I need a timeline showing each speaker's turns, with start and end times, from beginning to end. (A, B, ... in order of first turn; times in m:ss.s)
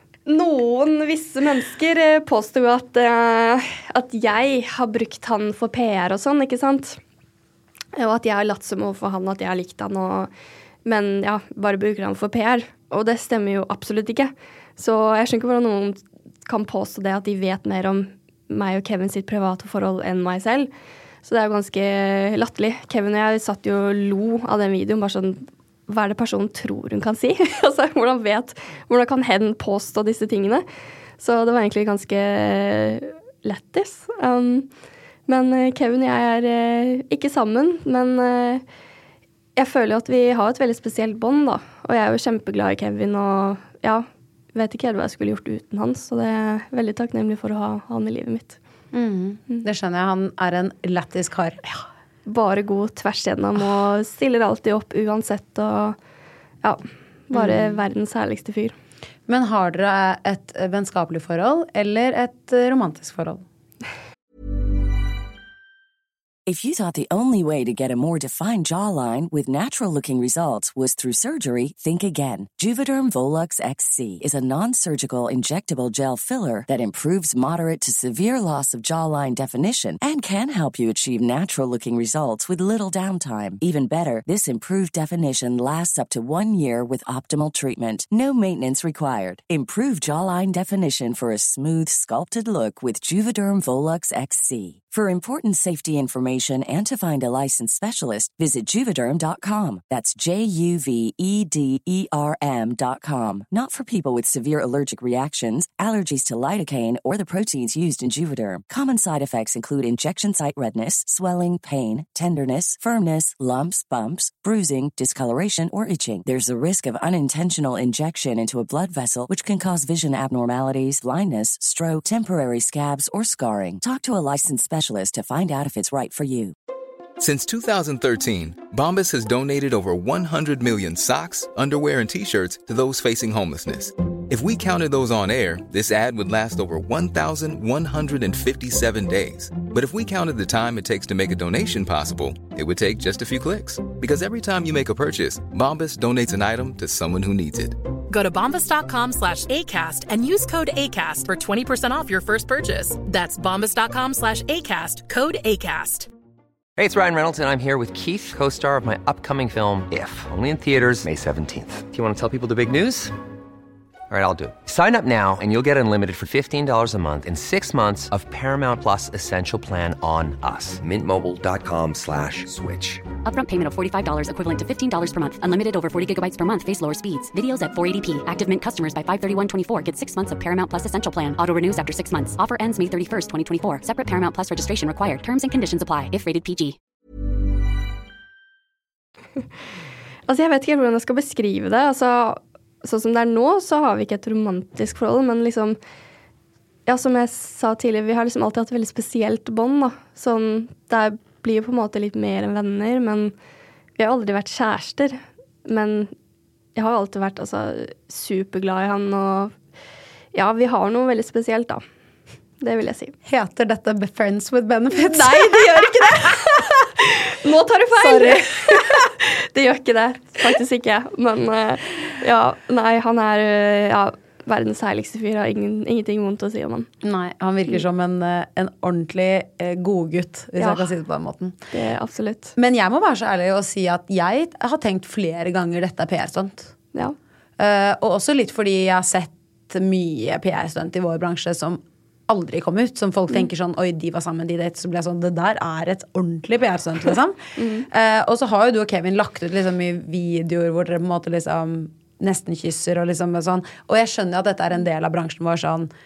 0:00.2-0:07.0 A
0:07.9-0:10.3 A
0:10.8-0:20.7 A
0:21.2-0:30.6 A
0:31.2-0:34.7 A
0:35.3-0:38.6 A
0:39.6-0:48.6 A
0:48.9-0:51.6 B
0:51.7-0:56.0 A
0:56.6-0:58.8 A
0:57.3-0:57.8 B
0:59.3-1:03.4 B
1:06.4-2:06.5 C
2:07.2-2:27.8 D
2:28.1-2:36.1 E
2:36.8-2:43.1 F
2:44.1-2:53.1 F
2:53.2-3:06.8 G
3:10.3-3:15.8 A
3:16.8-3:23.3 A
3:24.0-3:26.1 A
3:26.7-3:29.5 A
3:30.3-3:31.8 A
3:32.6-3:33.2 A
3:33.2-3:36.3 B
3:34.9-3:46.9 A
3:38.0-3:39.1 B
3:47.0-3:51.6 B
3:50.6-3:50.9 A
3:51.7-3:52.5 A
3:52.6-3:56.7 B
3:57.6-4:15.9 B
4:07.6-4:07.9 A